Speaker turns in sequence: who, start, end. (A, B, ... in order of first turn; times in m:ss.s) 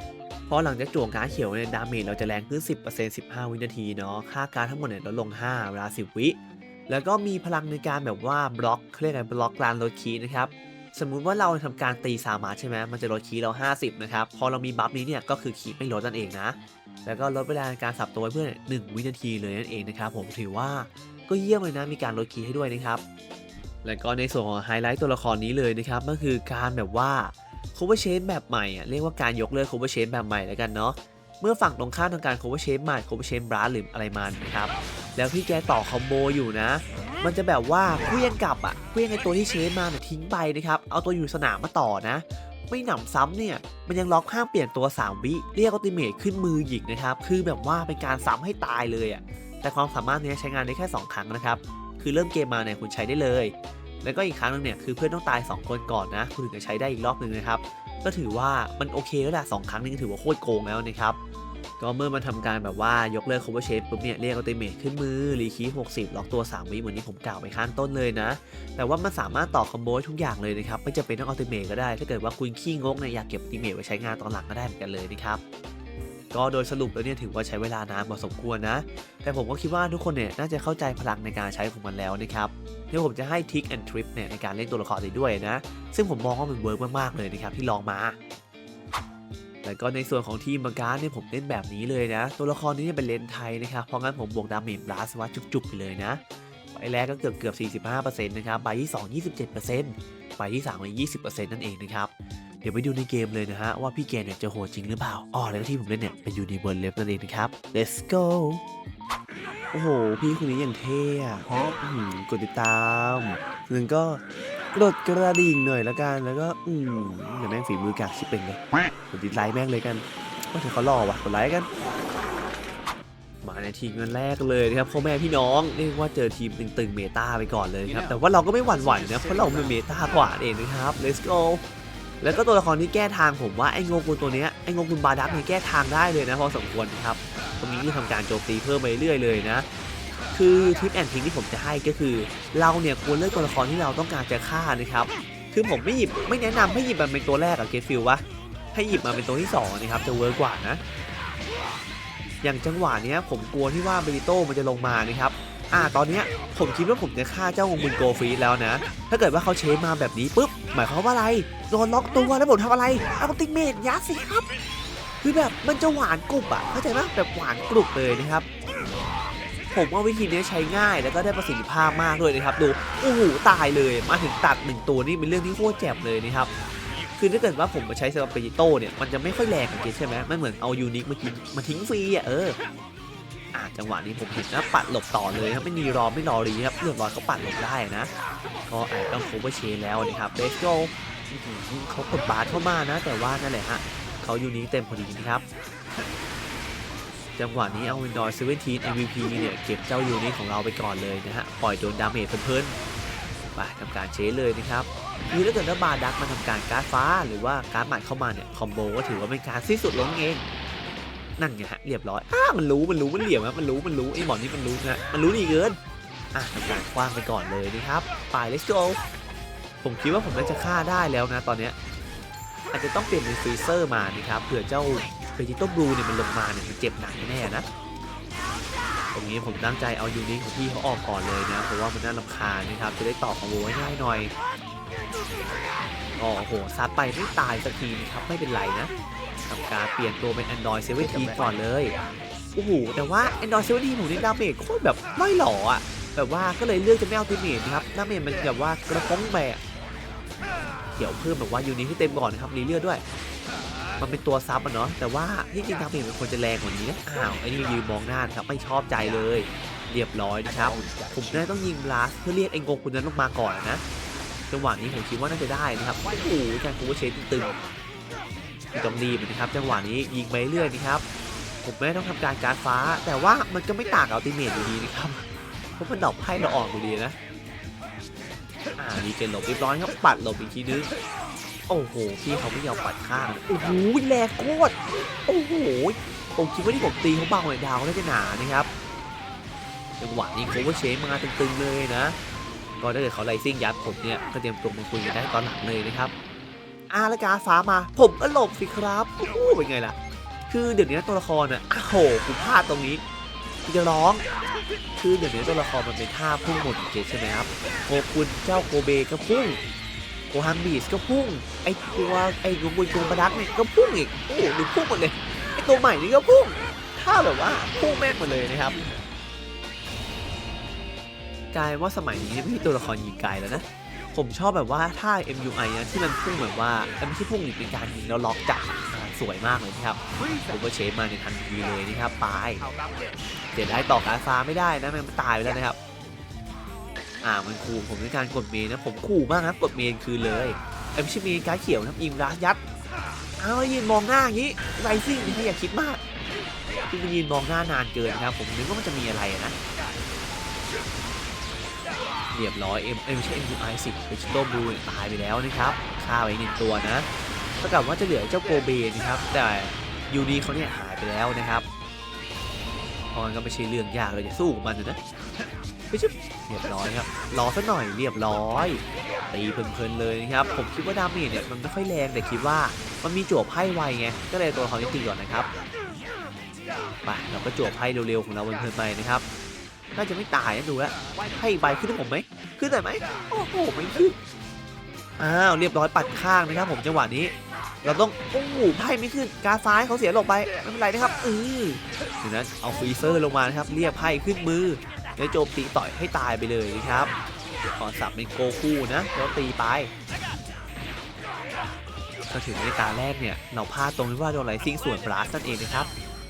0:00.5-0:06.4 A
0:06.9-0:23.0 A
0:23.8-1:01.2 A
1:01.8-1:15.4 A
1:16.3-1:28.2 A
1:29.6-1:36.2 A
1:36.7-1:42.1 A
1:42.6-1:48.6 A
1:49.7-1:54.2 A
1:54.7-2:01.7 A
2:03.4-2:11.6 A
2:12.2-2:19.7 A
2:20.3-2:30.8 A
2:32.4-2:44.5 A
2:45.2-2:48.4 A
2:49.7-2:56.5 A
2:57.2-3:02.6 A
3:03.5-3:08.1 A
3:08.7-3:15.4 A
3:17.4-3:22.8 A
3:23.5-3:30.4 A
3:31.4-3:35.8 A
3:36.3-3:39.0 A
3:39.8-3:41.8 A
3:42.7-3:47.6 A
3:49.1-3:54.3 A
3:56.2-3:58.9 A
3:59.5-4:01.9 A
4:02.6-4:09.6 A
4:11.0-4:13.0 A
4:14.0-4:23.8 A
4:24.5-4:27.6 A
4:28.7-4:31.0 A
4:31.6-4:35.2 A
4:35.8-4:37.2 A
4:38.8-4:40.9 A
4:41.7-4:44.7 A
4:45.3-4:48.7 A
4:50.0-4:52.2 A
4:52.8-4:56.1 A
4:56.9-5:00.0 A
5:00.5-5:03.0 A
5:03.6-5:04.2 A
5:05.0-5:09.6 A
5:10.3-5:18.8 A
5:21.5-5:32.6 A
5:33.5-5:35.8 A
5:37.2-5:42.6 A
5:43.4-5:46.0 A
5:46.9-5:49.5 A
5:52.3-5:57.0 A
5:57.6-6:01.6 A
6:03.1-6:05.0 A
6:05.9-6:15.5 A
6:17.0-6:19.2 A
6:19.9-6:24.2 A
6:25.2-6:37.1 A
6:37.8-6:39.9 A
6:42.3-6:45.9 A